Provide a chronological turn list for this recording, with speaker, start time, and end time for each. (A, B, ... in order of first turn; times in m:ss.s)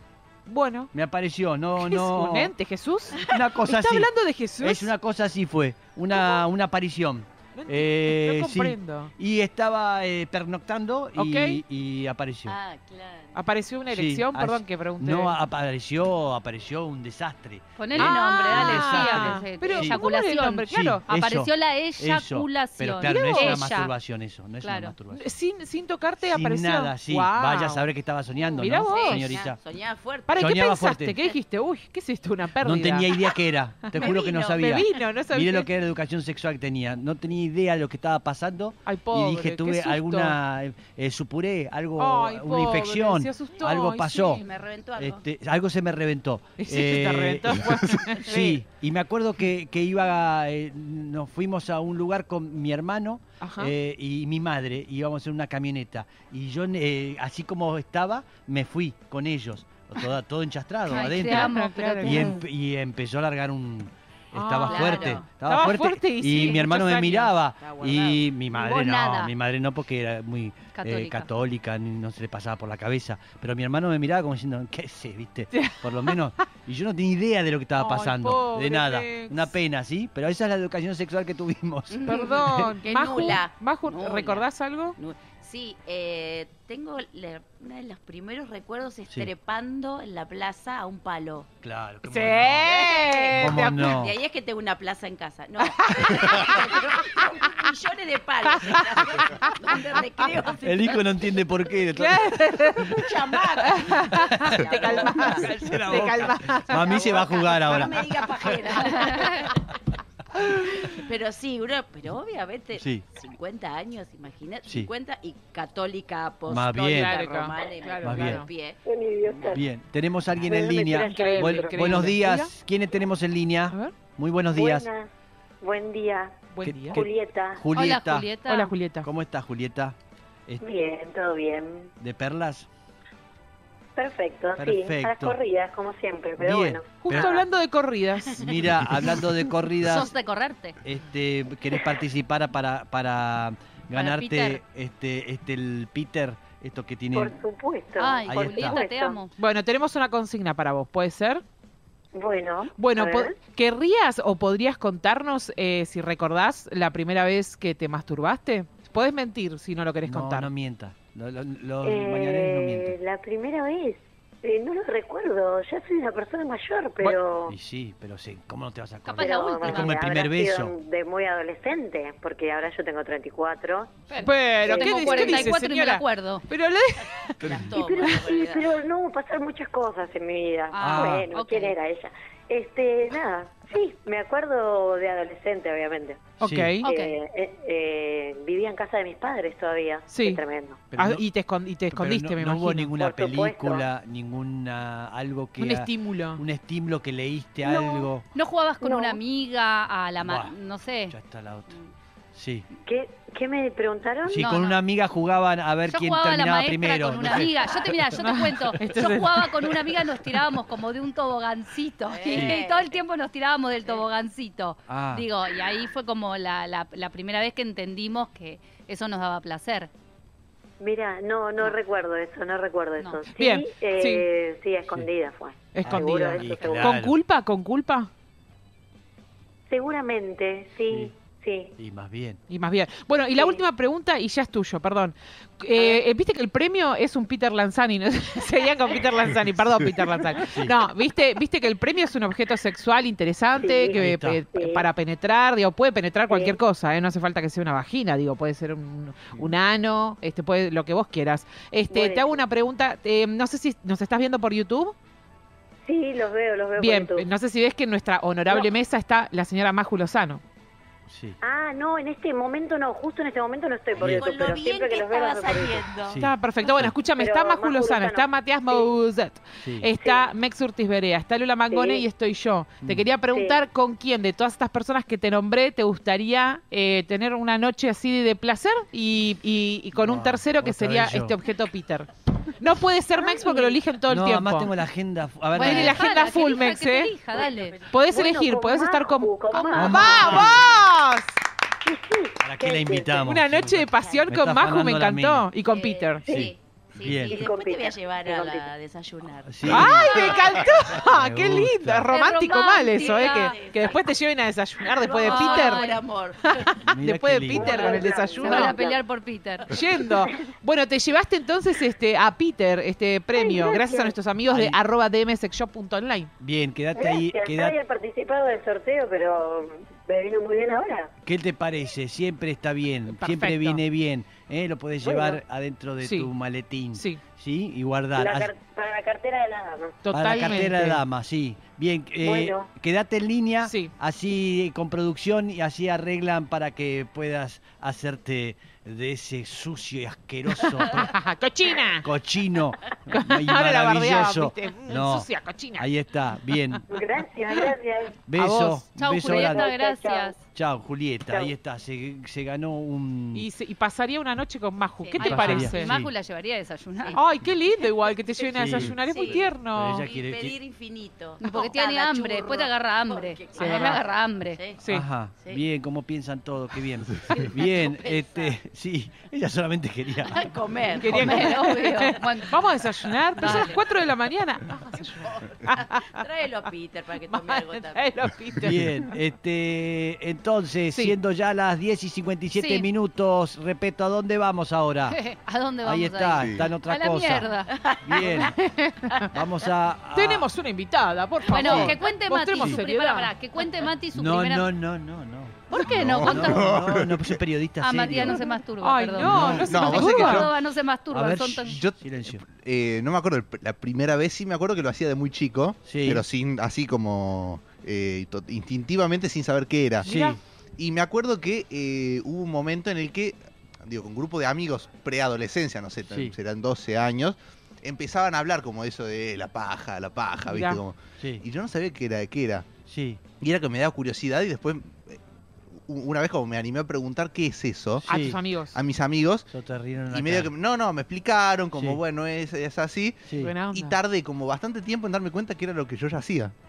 0:00.4-0:00.9 A
0:00.9-0:02.5 B
0:01.9-0:04.9 A
0:03.2-0:12.6 B
0:07.5-0:09.1 A
0:11.2-0:11.6 A
0:12.4-0:13.4 C
0:13.3-0:15.3 A
0:13.9-0:20.0 B
0:17.8-0:23.9 D
0:18.0-0:21.0 A
0:20.7-0:25.3 B
0:23.1-0:23.6 A
0:24.6-0:25.0 D
0:25.1-0:27.8 A
0:26.2-0:29.6 B
0:28.6-0:29.3 A
0:28.8-0:29.1 D
0:29.0-0:30.4 C
0:30.3-0:33.2 A
0:30.3-0:31.2 B
0:32.6-0:44.4 B
0:33.9-0:34.4 C
0:34.0-0:35.7 A
0:38.8-0:40.4 A
0:42.0-0:44.4 A
0:44.2-0:45.2 C
0:45.0-1:22.7 B
0:46.6-0:48.6 A
0:53.4-0:53.7 A
1:00.9-1:02.4 D
1:01.5-1:02.1 A
1:04.3-1:07.3 A
1:04.7-1:05.1 D
1:04.7-1:05.2 C
1:07.6-1:08.2 C
1:08.5-1:09.3 D
1:10.7-1:11.3 D
1:17.8-1:19.5 A
1:21.9-1:31.5 C
1:22.1-1:24.9 A
1:31.6-1:32.8 B
1:32.1-1:33.9 A
1:32.6-1:41.0 C
1:33.3-1:34.2 B
1:35.7-1:36.6 A
1:40.6-1:43.8 B
1:42.0-1:43.0 A
1:43.0-1:46.1 C
1:43.8-1:46.9 A
1:44.9-1:49.2 B
1:46.7-1:49.5 C
1:49.1-1:49.3 D
1:50.4-1:59.6 C
1:52.7-1:53.0 B
1:56.5-1:57.1 B
1:57.0-1:58.4 A
1:58.0-1:58.4 B
1:58.8-1:59.6 E
1:59.5-2:04.9 B
2:00.4-2:02.1 E
2:01.1-2:02.5 A
2:04.5-2:05.1 E
2:05.6-2:07.6 E
2:06.5-2:07.0 A
2:06.6-2:08.3 B
2:07.7-2:08.7 D
2:08.5-2:09.1 A
2:09.0-2:10.0 B
2:10.6-2:11.9 E
2:12.0-2:12.7 B
2:14.0-2:17.4 E
2:14.6-2:15.4 B
2:16.4-2:17.4 B
2:17.0-2:18.3 A
2:18.4-2:20.1 B
2:19.8-2:20.8 D
2:20.8-2:27.3 B
2:23.9-2:24.6 D
2:27.1-2:29.2 E
2:28.0-2:29.3 D
2:28.2-2:28.8 B
2:29.4-2:31.4 A
2:32.1-2:33.4 E
2:32.8-2:40.5 A
2:40.0-2:43.0 B
2:41.8-2:47.5 E
2:47.5-2:50.7 B
2:49.0-2:50.0 D
2:49.2-2:55.6 E
2:54.1-2:56.4 D
2:54.2-2:57.5 A
2:57.4-2:58.8 C
2:57.6-3:10.8 E
3:00.7-3:01.7 D
3:00.8-3:01.2 B
3:06.4-3:06.9 A
3:06.4-3:06.7 B
3:06.8-3:07.1 D
3:10.1-3:10.4 A
3:10.9-3:11.2 B
3:11.0-3:12.9 A
3:11.9-3:18.2 B
3:12.9-3:13.8 E
3:15.6-3:16.4 A
3:17.6-3:18.1 E
3:18.3-3:21.2 D
3:18.8-3:19.2 E
3:20.2-3:20.5 B
3:21.1-3:21.8 B
3:22.3-3:22.6 B
3:22.8-3:24.5 E
3:24.3-3:27.5 B
3:24.3-3:24.8 D
3:25.9-3:39.9 D
3:28.2-3:29.4 A
3:32.1-3:33.0 C
3:32.3-3:32.6 B
3:34.9-3:35.2 B
3:40.8-3:47.1 E
3:43.3-3:44.2 A
3:45.7-3:48.1 A
3:45.8-3:47.2 B
3:49.7-3:51.7 E
3:51.8-3:52.4 B
3:52.5-4:14.9 A
3:53.4-3:53.6 E
3:55.7-3:56.0 E
4:00.5-4:00.8 B
4:03.6-4:04.9 E
4:03.9-4:04.4 B
4:06.3-4:06.5 E
4:11.9-4:12.4 E
4:15.8-4:17.3 E
4:16.8-4:20.4 A
4:21.1-4:21.4 B
4:21.4-4:25.9 E
4:24.0-4:26.2 C
4:24.0-4:24.2 B
4:26.1-4:26.9 B
4:26.2-4:42.1 A
4:26.8-4:28.9 E
4:29.6-4:29.9 B
4:29.9-4:30.3 E
4:31.7-4:32.0 E
4:33.3-4:33.6 E
4:39.9-4:41.4 B
4:42.6-4:44.7 A
4:43.2-4:43.8 E
4:44.1-4:46.1 B
4:45.5-4:47.2 A
4:45.5-4:47.9 D
4:47.3-4:50.7 E
4:47.9-4:51.3 A
4:49.5-4:50.4 D
4:49.7-4:50.8 B
4:51.8-4:53.3 E
4:52.4-4:55.5 B
4:53.3-4:56.2 A
4:53.8-4:54.3 C
4:55.6-5:00.6 C
4:56.3-4:57.4 B
4:56.3-4:58.7 E
4:59.5-5:02.1 B
4:59.7-5:08.8 A
5:02.0-5:03.6 D
5:02.6-5:04.2 C
5:04.8-5:06.6 C
5:05.2-5:06.0 D
5:06.8-5:08.0 B
5:07.5-5:09.0 E
5:08.4-5:09.8 D
5:09.7-5:16.3 A
5:10.1-5:10.5 E
5:13.3-5:14.1 E
5:14.5-5:14.8 B
5:16.4-5:17.8 B
5:16.9-5:21.1 E
5:21.2-5:28.5 B
5:23.2-5:23.8 A
5:25.0-5:25.4 E
5:26.0-5:26.3 A
5:28.2-5:30.6 E
5:30.0-5:31.0 A
5:30.1-5:41.2 B
5:32.2-5:32.7 E
5:33.6-5:33.9 A
5:40.9-5:42.1 A
5:42.0-5:46.8 B
5:43.1-5:45.9 A
5:46.9-5:48.3 E
5:48.3-5:49.7 B
5:48.4-5:48.8 A
5:48.9-5:50.4 D
5:49.2-5:50.3 E
5:50.5-5:53.5 B
5:51.3-5:51.5 E
5:53.3-5:55.9 A
5:55.0-5:55.7 C
5:55.2-5:57.3 D
5:55.2-5:56.1 B
5:57.0-5:57.2 C
5:57.2-6:00.0 A
5:58.4-6:04.8 C
5:58.5-6:00.6 B
6:01.4-6:04.7 D
6:03.6-6:03.8 A
6:04.8-6:05.0 A
6:04.9-6:10.4 B
6:07.3-6:08.6 C
6:10.3-6:12.7 C
6:11.0-6:16.2 A
6:11.1-6:11.5 B
6:11.3-6:12.8 D
6:13.3-6:13.8 D
6:13.5-6:13.7 B
6:15.8-6:18.2 C
6:17.3-6:19.1 A
6:18.6-6:25.2 B
6:22.5-6:22.9 D
6:25.1-6:27.7 D
6:25.8-6:28.6 B
6:26.4-6:26.7 F
6:27.7-6:28.5 C
6:28.5-6:29.3 A
6:29.3-6:30.5 B
6:30.1-6:33.3 A
6:31.4-6:34.7 D
6:31.6-6:32.0 B
6:34.1-6:38.4 B
6:35.7-6:36.8 D
6:35.8-6:37.4 F
6:37.8-6:41.8 D
6:38.8-6:40.4 A
6:39.2-6:40.5 B
6:39.2-6:40.5 F
6:41.1-6:42.4 B
6:41.7-6:50.1 F
6:45.8-6:46.2 B
6:50.0-6:50.4 A
6:50.0-6:50.4 B
6:50.8-7:02.7 F
6:56.1-6:56.3 B
7:00.5-7:00.8 A
7:01.2-7:01.4 B
7:02.9-7:03.2 B
7:03.4-7:05.2 F
7:05.9-7:08.1 F
7:08.0-7:08.4 B
7:08.0-7:08.8 A
7:08.7-7:09.5 F
7:09.5-7:10.5 B
7:10.1-7:16.5 F
7:11.7-7:12.0 B
7:13.2-7:13.5 B
7:13.4-7:13.9 A